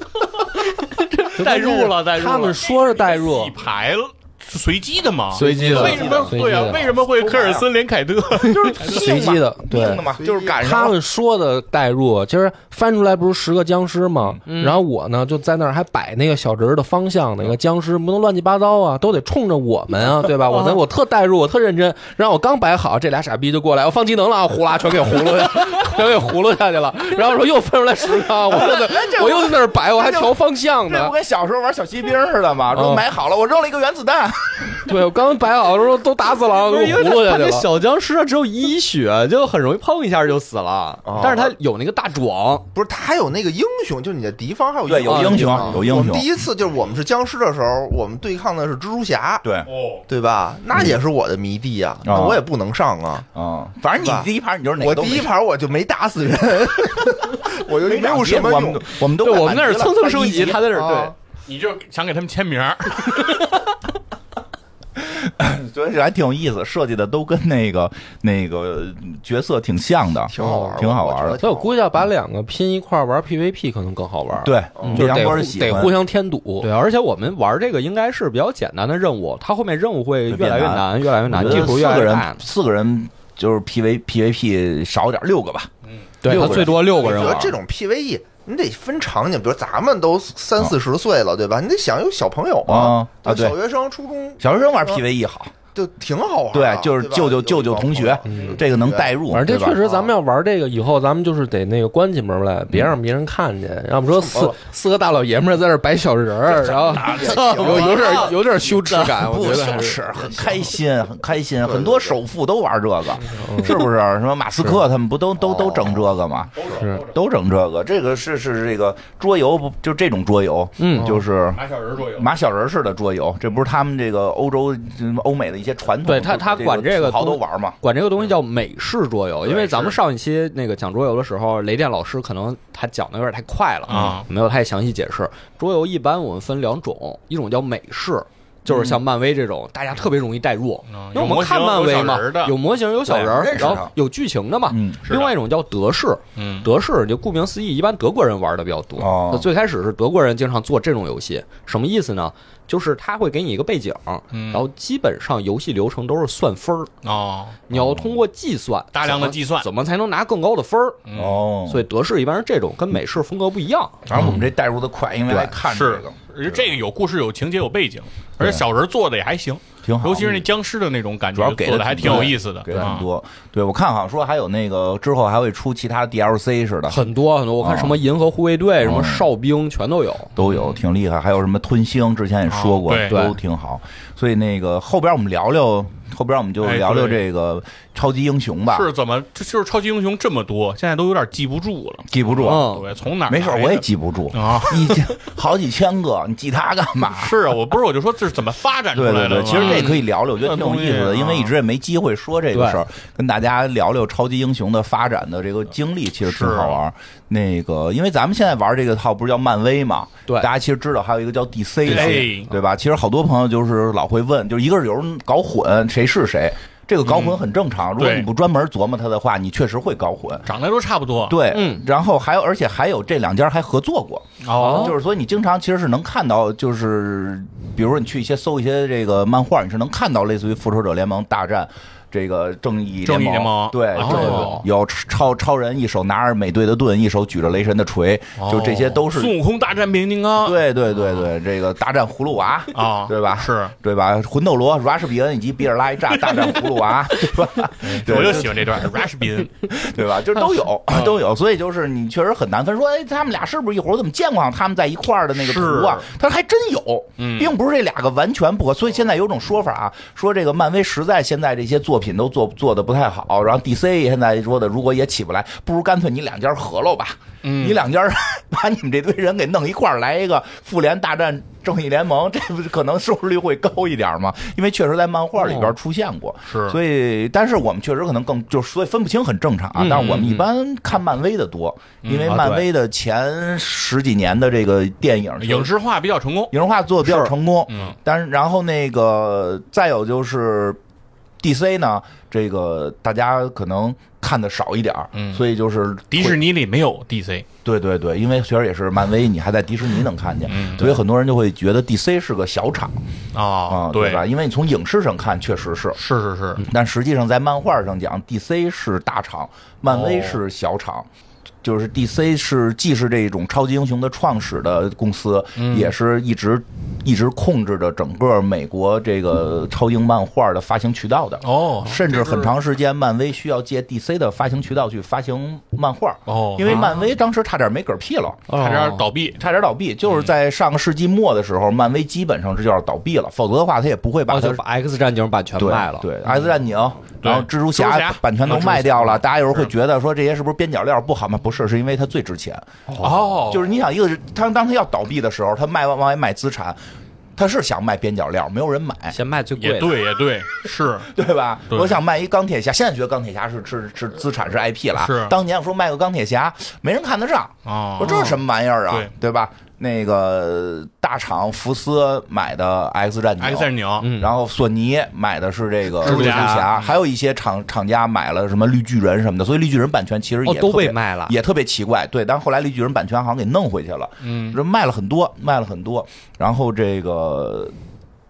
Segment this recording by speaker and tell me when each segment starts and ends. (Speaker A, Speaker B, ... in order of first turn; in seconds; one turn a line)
Speaker A: 0.7-2.5
Speaker B: 1.4-3.5
Speaker C: 1.4-9.2
Speaker A: 5.4-6.1
Speaker B: 5.4-6.8
Speaker D: 5.4-7.7
Speaker D: 8.4-11.0
Speaker B: 8.6-10.1
Speaker E: 10.2-10.6
Speaker B: 10.6-31.1
Speaker A: 14.5-14.8
Speaker A: 20.5-20.8
Speaker D: 28.5-34.9
Speaker B: 32.7-33.0
Speaker B: 34.7-37.7
Speaker A: 36.4-42.7
Speaker E: 41.0-41.5
Speaker E: 42.7-49.5
Speaker D: 44.9-46.3
Speaker A: 45.0-45.8
Speaker D: 49.4-49.7
Speaker C: 49.7-50.1
Speaker E: 50.1-53.3
Speaker D: 52.0-52.5
Speaker D: 53.4-55.3
Speaker E: 54.0-54.3
Speaker E: 54.8-58.9
Speaker D: 57.8-60.6
Speaker A: 59.2-61.1
Speaker E: 60.7-61.1
Speaker C: 61.5-63.5
Speaker D: 65.0-71.4
Speaker E: 70.3-71.7
Speaker B: 70.4-70.8
Speaker B: 71.4-76.7
Speaker D: 74.4-76.0
Speaker E: 74.8-75.1
Speaker A: 76.6-82.4
Speaker D: 80.3-85.7
Speaker A: 86.2-87.5
Speaker D: 86.2-87.5
Speaker E: 86.3-95.0
Speaker D: 92.7-93.6
Speaker D: 94.4-95.5
Speaker E: 95.7-99.2
Speaker D: 96.5-99.8
Speaker B: 98.3-98.6
Speaker B: 99.3-110.4
Speaker E: 99.8-100.1
Speaker E: 104.2-104.6
Speaker D: 106.5-127.8
Speaker E: 106.9-108.3
Speaker A: 107.3-109.1
Speaker E: 111.6-112.2
Speaker B: 113.4-113.8
Speaker E: 115.5-115.8
Speaker C: 116.5-117.2
Speaker A: 120.8-121.2
Speaker C: 121.5-122.3
Speaker A: 126.0-156.9
Speaker C: 129.4-130.0
Speaker C: 133.9-134.3
Speaker D: 138.7-139.0
Speaker C: 140.9-142.6
Speaker D: 143.1-143.9
Speaker D: 144.7-145.0
Speaker C: 145.1-145.3
Speaker C: 146.4-146.7
Speaker D: 149.0-149.5
Speaker C: 154.3-154.6
Speaker C: 157.0-157.6
Speaker A: 157.7-161.0
Speaker D: 157.7-158.2
Speaker C: 158.9-159.7
Speaker C: 161.1-161.4
Speaker D: 161.2-161.9
Speaker A: 161.7-164.1
Speaker D: 164.1-166.6
Speaker C: 165.3-173.1
Speaker D: 169.8-170.5
Speaker D: 171.3-177.1
Speaker A: 172.0-172.3
Speaker A: 176.9-180.3
Speaker D: 177.6-178.0
Speaker D: 178.8-179.3
Speaker D: 180.4-188.9
Speaker C: 180.4-180.8
Speaker C: 182.5-183.2
Speaker A: 183.1-183.4
Speaker C: 186.6-187.2
Speaker C: 188.7-195.1
Speaker D: 192.1-192.7
Speaker A: 192.4-192.9
Speaker D: 193.3-197.4
Speaker C: 197.1-201.5
Speaker D: 198.9-220.5
Speaker A: 199.6-200.0
Speaker A: 202.5-202.8
Speaker C: 206.2-206.8
Speaker C: 211.8-212.5
Speaker A: 211.9-212.4
Speaker C: 217.0-217.4
Speaker C: 218.0-218.3
Speaker C: 220.5-221.4
Speaker D: 221.3-239.4
Speaker A: 221.5-221.8
Speaker C: 224.4-225.0
Speaker A: 224.6-224.9
Speaker C: 233.0-234.6
Speaker A: 234.0-234.6
Speaker C: 238.4-241.3
Speaker D: 240.4-249.1
Speaker C: 242.7-243.7
Speaker C: 247.7-249.7
Speaker D: 249.7-285.7
Speaker C: 250.9-251.2
Speaker C: 255.4-256.1
Speaker C: 257.2-257.5
Speaker C: 267.4-267.8
Speaker A: 275.4-275.7
Speaker C: 276.5-276.8
Speaker A: 279.8-280.5
Speaker C: 279.9-280.3
Speaker C: 282.0-282.4
Speaker A: 282.3-282.6
Speaker C: 285.4-286.5
Speaker D: 286.5-290.8
Speaker A: 287.1-287.3
Speaker C: 287.7-287.9
Speaker D: 291.4-296.4
Speaker C: 295.1-295.4
Speaker C: 296.1-297.5
Speaker D: 297.6-303.0
Speaker C: 300.5-301.0
Speaker C: 303.3-304.2
Speaker D: 303.7-306.0
Speaker C: 306.0-306.6
Speaker D: 306.6-311.1
Speaker C: 309.9-310.4
Speaker D: 311.6-328.5
Speaker C: 315.6-315.9
Speaker C: 321.4-322.6
Speaker C: 326.3-326.9
Speaker A: 328.5-329.1
Speaker C: 328.5-329.4
Speaker D: 329.4-334.6
Speaker A: 334.3-336.1
Speaker D: 335.6-342.7
Speaker C: 337.2-339.7
Speaker A: 342.9-343.5
Speaker C: 343.0-343.7
Speaker D: 343.5-346.8
Speaker D: 347.4-349.2
Speaker A: 349.1-350.0
Speaker C: 349.6-351.1
Speaker D: 351.1-377.8
Speaker C: 351.7-352.0
Speaker C: 355.0-355.4
Speaker C: 357.7-358.3
Speaker A: 358.0-358.4
Speaker C: 363.4-364.1
Speaker A: 364.0-364.3
Speaker C: 366.0-366.9
Speaker A: 366.0-366.7
Speaker A: 370.4-371.4
Speaker C: 374.2-374.6